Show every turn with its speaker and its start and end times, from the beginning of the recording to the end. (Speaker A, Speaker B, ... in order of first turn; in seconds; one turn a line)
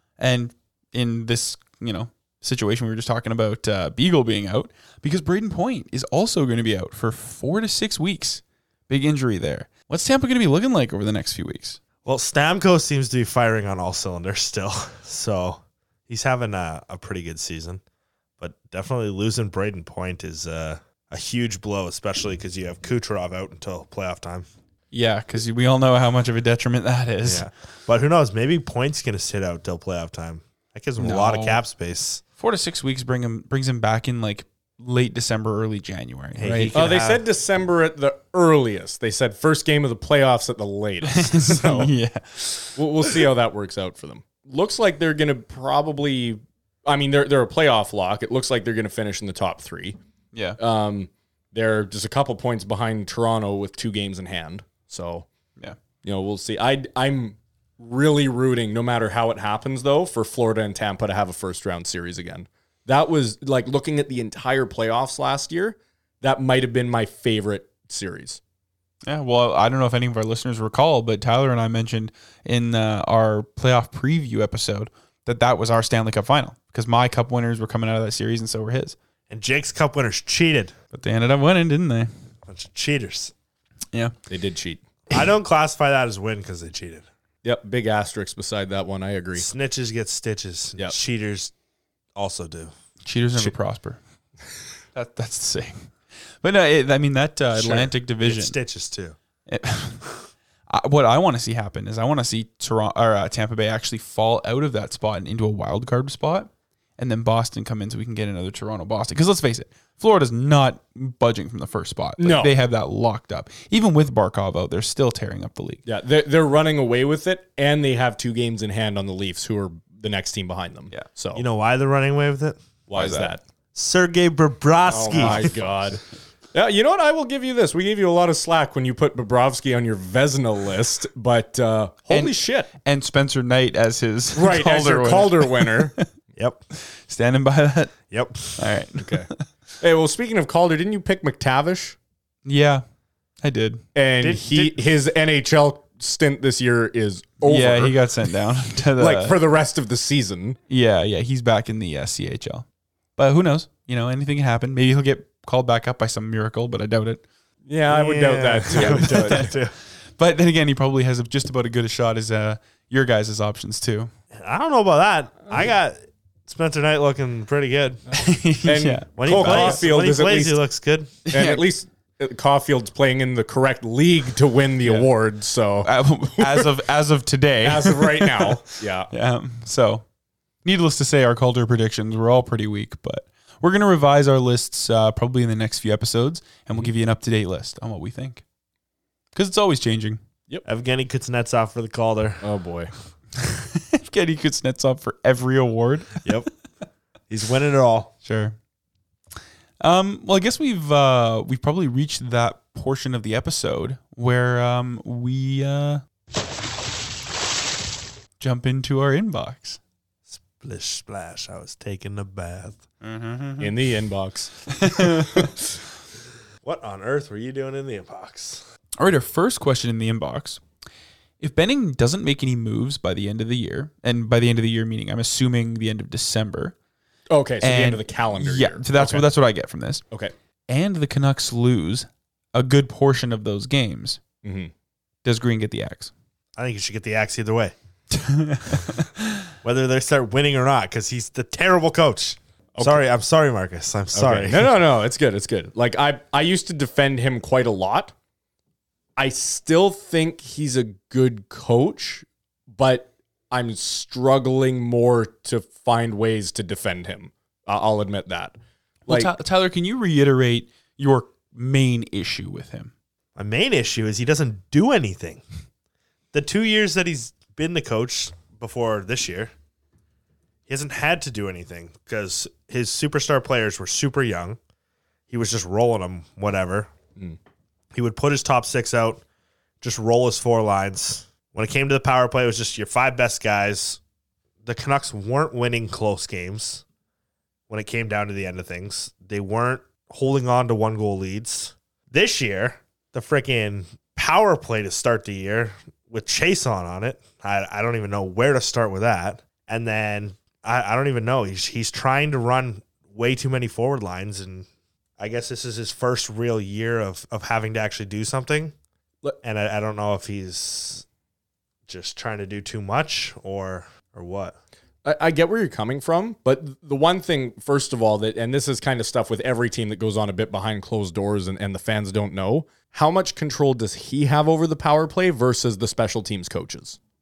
Speaker A: 0.2-11.8
Speaker B: 12.0-17.8
Speaker B: 18.4-24.5
Speaker A: 24.9-27.5
Speaker B: 27.2-32.2
Speaker A: 31.0-31.6
Speaker A: 32.4-36.8
Speaker B: 36.4-37.2
Speaker C: 36.7-41.9
Speaker A: 41.1-42.8
Speaker C: 42.8-50.0
Speaker A: 50.3-50.6
Speaker C: 50.6-55.3
Speaker C: 56.0-68.4
Speaker A: 69.1-79.0
Speaker B: 79.3-80.8
Speaker A: 80.9-82.1
Speaker B: 82.5-83.3
Speaker C: 84.3-84.8
Speaker B: 85.1-87.1
Speaker C: 87.4-89.5
Speaker B: 89.4-91.5
Speaker B: 92.2-92.7
Speaker A: 93.0-94.0
Speaker A: 95.0-95.9
Speaker A: 96.4-98.6
Speaker B: 97.6-99.2
Speaker A: 99.5-115.8
Speaker C: 112.2-112.5
Speaker C: 115.8-121.4
Speaker B: 121.3-122.6
Speaker C: 122.9-123.4
Speaker A: 123.0-123.3
Speaker B: 123.8-125.6
Speaker C: 124.9-126.0
Speaker A: 125.2-125.5
Speaker C: 126.5-132.7
Speaker A: 132.1-136.1
Speaker C: 134.3-135.9
Speaker B: 136.4-136.6
Speaker A: 136.9-138.0
Speaker B: 138.1-138.6
Speaker A: 138.5-139.4
Speaker C: 139.0-139.3
Speaker C: 139.8-142.0
Speaker A: 142.4-142.8
Speaker A: 143.4-143.8
Speaker C: 143.9-148.0
Speaker B: 144.2-144.9
Speaker A: 147.4-149.4
Speaker C: 149.0-150.6
Speaker A: 150.7-152.7
Speaker A: 153.2-157.2
Speaker C: 157.7-159.5
Speaker B: 157.9-159.7
Speaker A: 158.7-159.6
Speaker A: 160.2-164.1
Speaker B: 164.4-168.0
Speaker A: 168.1-169.8
Speaker C: 168.7-170.6
Speaker B: 169.2-171.2
Speaker A: 171.3-171.7
Speaker C: 171.3-176.7
Speaker A: 175.8-180.0
Speaker C: 177.6-179.1
Speaker A: 180.7-188.4
Speaker A: 189.3-190.2
Speaker B: 190.7-192.4
Speaker C: 192.4-192.9
Speaker A: 193.4-196.4
Speaker B: 197.3-198.1
Speaker A: 198.2-198.6
Speaker A: 199.8-206.0
Speaker A: 208.4-209.8
Speaker B: 210.3-212.8
Speaker A: 213.0-213.7
Speaker C: 213.6-215.5
Speaker A: 214.7-215.5
Speaker B: 216.6-218.6
Speaker A: 219.0-220.6
Speaker A: 221.4-226.8
Speaker C: 227.3-229.3
Speaker A: 227.6-230.0
Speaker A: 230.7-234.2
Speaker C: 234.4-234.7
Speaker A: 235.2-236.1
Speaker B: 236.6-237.8
Speaker A: 238.1-239.3
Speaker B: 239.6-244.7
Speaker C: 242.8-243.0
Speaker C: 244.1-248.1
Speaker C: 249.2-258.6
Speaker C: 259.1-259.3
Speaker A: 259.1-262.9
Speaker B: 263.4-265.4
Speaker B: 266.3-269.5
Speaker B: 270.7-274.6
Speaker B: 275.3-276.9
Speaker B: 277.9-279.2
Speaker B: 279.8-284.0
Speaker B: 284.6-286.8
Speaker B: 287.7-304.7
Speaker B: 305.2-308.7
Speaker B: 309.4-311.0
Speaker B: 311.9-314.6
Speaker C: 315.1-327.0